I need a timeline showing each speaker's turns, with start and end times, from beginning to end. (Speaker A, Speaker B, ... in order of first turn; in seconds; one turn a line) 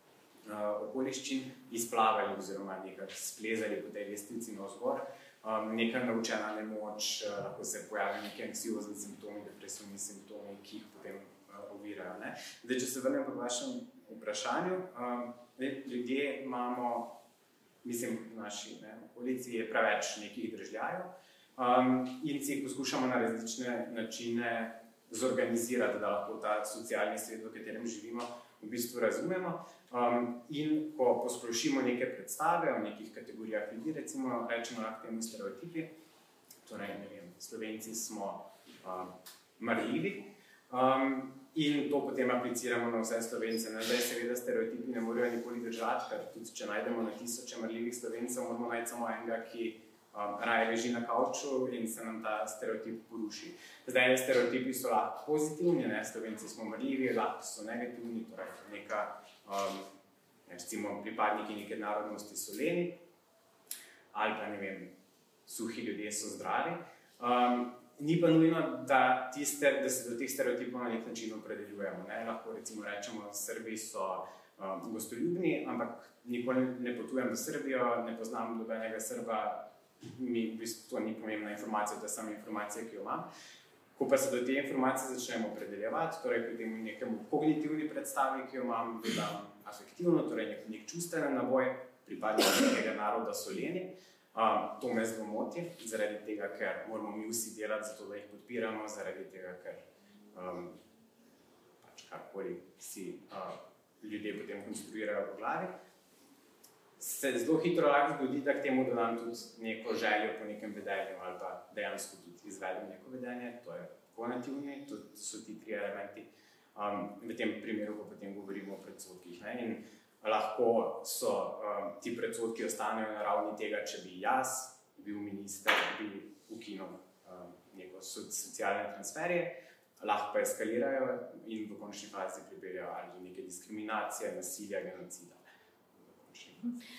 Speaker A: 0.4-17.1
Speaker A: 17.8-35.9
Speaker A: 36.6-59.9
Speaker A: 60.5-63.0
Speaker A: 64.1-64.9
Speaker A: 65.5-83.3
Speaker A: 84.0-99.8
Speaker A: 100.3-100.8
Speaker A: 101.8-105.7
Speaker A: 107.0-135.4
Speaker A: 136.2-136.6